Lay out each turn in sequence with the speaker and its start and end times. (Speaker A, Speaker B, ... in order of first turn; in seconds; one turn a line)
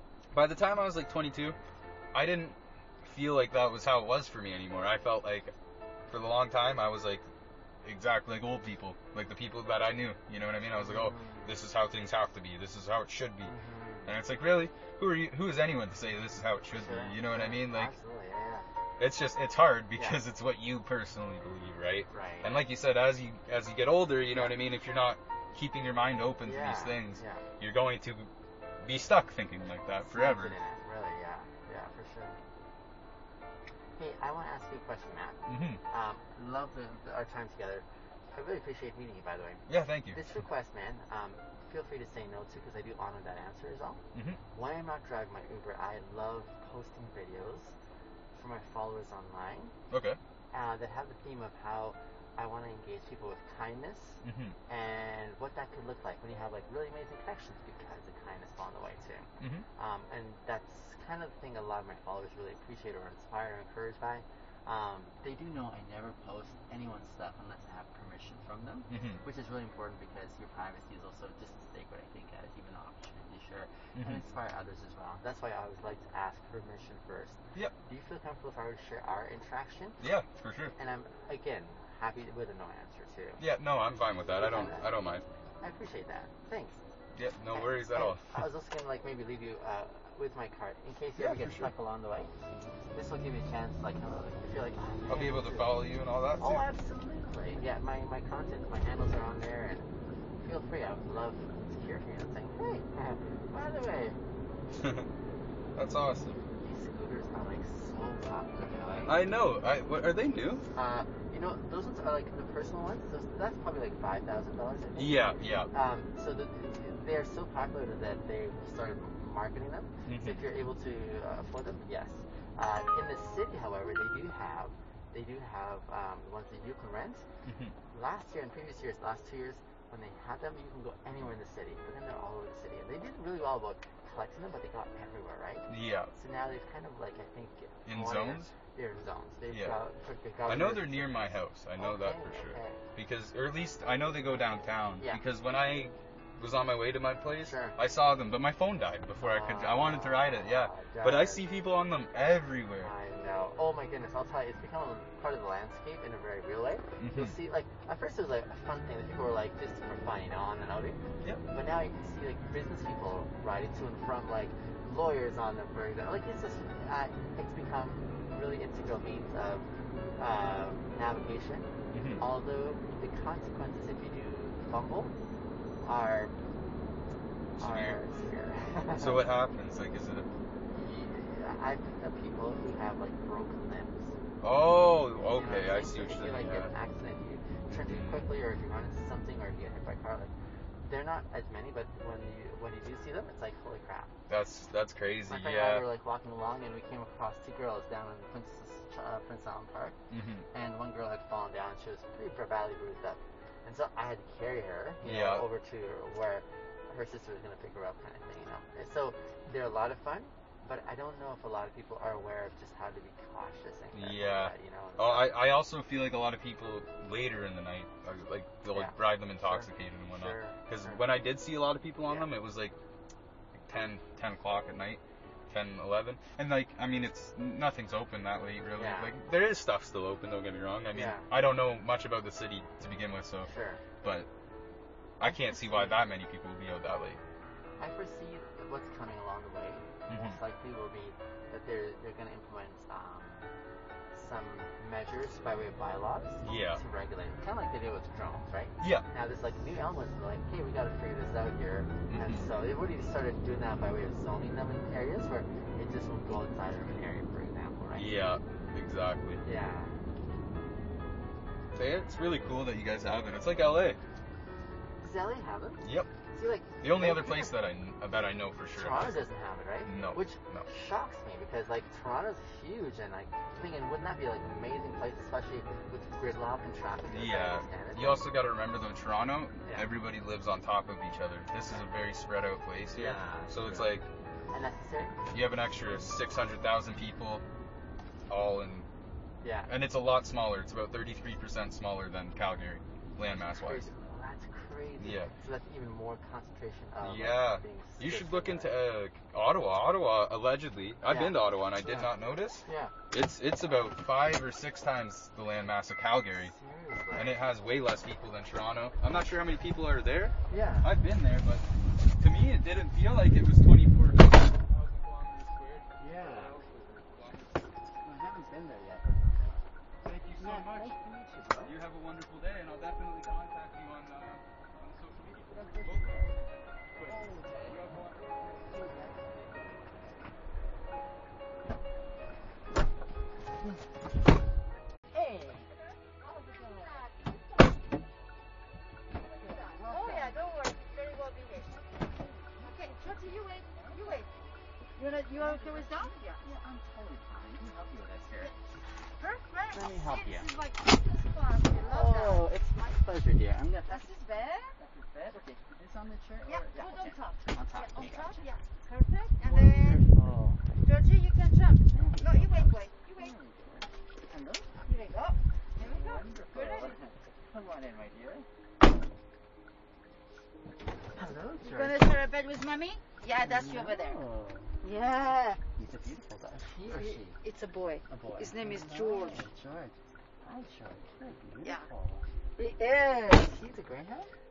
Speaker A: 0.3-1.6
Speaker A: 2.1-5.5
Speaker A: 6.1-7.3
Speaker A: 7.8-13.5
Speaker B: 10.8-11.6
Speaker B: 13.4-14.1
Speaker A: 14.1-17.9
Speaker B: 16.8-18.7
Speaker A: 19.0-28.3
Speaker B: 22.1-22.6
Speaker B: 24.3-24.6
Speaker B: 26.4-27.4
Speaker A: 28.8-30.6
Speaker B: 30.1-32.4
Speaker B: 34.0-35.4
Speaker A: 35.5-35.8
Speaker B: 35.9-44.0
Speaker A: 39.7-40.2
Speaker B: 44.5-47.8
Speaker B: 48.3-49.7
Speaker A: 49.9-50.2
Speaker B: 50.5-80.0
Speaker A: 54.2-54.6
Speaker A: 59.4-59.7
Speaker A: 68.9-69.2
Speaker A: 74.0-74.2
Speaker A: 80.0-80.7
Speaker B: 80.8-83.4
Speaker A: 83.4-85.2
Speaker B: 84.3-85.0
Speaker B: 85.6-86.8
Speaker A: 87.2-88.4
Speaker B: 87.5-92.3
Speaker A: 91.2-91.7
Speaker B: 92.9-95.8
Speaker A: 95.1-96.6
Speaker B: 96.4-99.9
Speaker B: 100.4-104.2
Speaker A: 104.8-105.1
Speaker A: 105.8-106.4
Speaker B: 106.6-109.2
Speaker A: 109.0-110.6
Speaker B: 110.7-115.2
Speaker A: 115.0-115.7
Speaker B: 115.7-127.2
Speaker A: 120.1-120.5
Speaker A: 127.5-127.8
Speaker B: 127.9-142.8
Speaker A: 135.7-136.1
Speaker A: 137.9-138.5
Speaker A: 139.5-139.8
Speaker A: 140.5-152.9
Speaker B: 147.4-147.8
Speaker B: 149.2-151.4
Speaker B: 152.8-161.0
Speaker A: 157.0-157.3
Speaker B: 161.5-175.1
Speaker A: 171.9-172.2
Speaker B: 175.8-176.3
Speaker A: 177.6-178.0
Speaker B: 177.6-179.2
Speaker A: 178.9-180.3
Speaker B: 180.7-184.2
Speaker A: 184.4-186.7
Speaker B: 185.2-194.1
Speaker A: 187.7-188.2
Speaker A: 194.3-195.9
Speaker B: 195.3-200.0
Speaker A: 200.1-200.4
Speaker B: 200.5-215.3
Speaker A: 205.0-205.4
Speaker A: 213.9-222.8
Speaker B: 218.7-221.0
Speaker B: 222.1-222.3
Speaker A: 223.7-233.5
Speaker B: 228.8-229.1
Speaker B: 230.9-231.3
Speaker B: 233.4-233.8
Speaker A: 234.0-234.3
Speaker A: 235.2-237.2
Speaker B: 235.2-236.0
Speaker B: 237.8-243.5
Speaker A: 240.1-240.4
Speaker B: 244.1-258.2
Speaker A: 246.4-246.8
Speaker A: 252.1-252.4
Speaker A: 258.0-259.4
Speaker B: 259.4-260.0
Speaker A: 261.8-264.0
Speaker B: 265.0-267.5
Speaker A: 265.8-266.1
Speaker A: 266.8-269.3
Speaker B: 268.8-278.2
Speaker A: 269.9-270.7
Speaker A: 277.1-284.1
Speaker B: 283.0-283.9
Speaker B: 284.5-285.2
Speaker A: 285.3-287.4
Speaker A: 288.3-288.9
Speaker B: 289.4-289.7
Speaker A: 289.7-293.9
Speaker B: 293.2-298.8
Speaker A: 295.0-295.3
Speaker A: 297.0-306.5
Speaker B: 301.1-302.1
Speaker B: 302.6-302.9
Speaker B: 306.4-307.4
Speaker A: 307.1-311.7
Speaker B: 310.5-310.9
Speaker A: 312.2-317.8
Speaker B: 316.0-316.6
Speaker B: 318.0-319.5
Speaker A: 320.0-320.9
Speaker B: 320.4-321.7
Speaker A: 321.6-329.9
Speaker B: 325.5-326.3
Speaker B: 327.1-327.8
Speaker B: 328.7-329.4
Speaker B: 335.1-335.7
Speaker C: 336.2-337.2
Speaker B: 336.8-337.0
Speaker B: 339.4-340.4
Speaker C: 339.4-341.9
Speaker B: 342.1-344.4
Speaker C: 342.6-344.3
Speaker C: 345.0-346.4
Speaker B: 345.4-348.5
Speaker C: 349.2-352.4
Speaker B: 349.7-350.5
Speaker B: 351.8-354.1
Speaker C: 353.9-354.8
Speaker B: 354.8-358.4
Speaker C: 356.5-360.0
Speaker B: 359.4-360.6
Speaker C: 360.8-363.3
Speaker B: 361.9-364.8
Speaker C: 364.8-367.0
Speaker B: 365.8-368.5
Speaker B: 371.1-372.1
Speaker C: 371.6-374.2
Speaker B: 373.4-374.8
Speaker C: 374.8-375.6
Speaker B: 375.8-377.4
Speaker C: 376.9-379.5
Speaker B: 378.1-382.3
Speaker C: 382.6-383.6
Speaker B: 383.5-384.3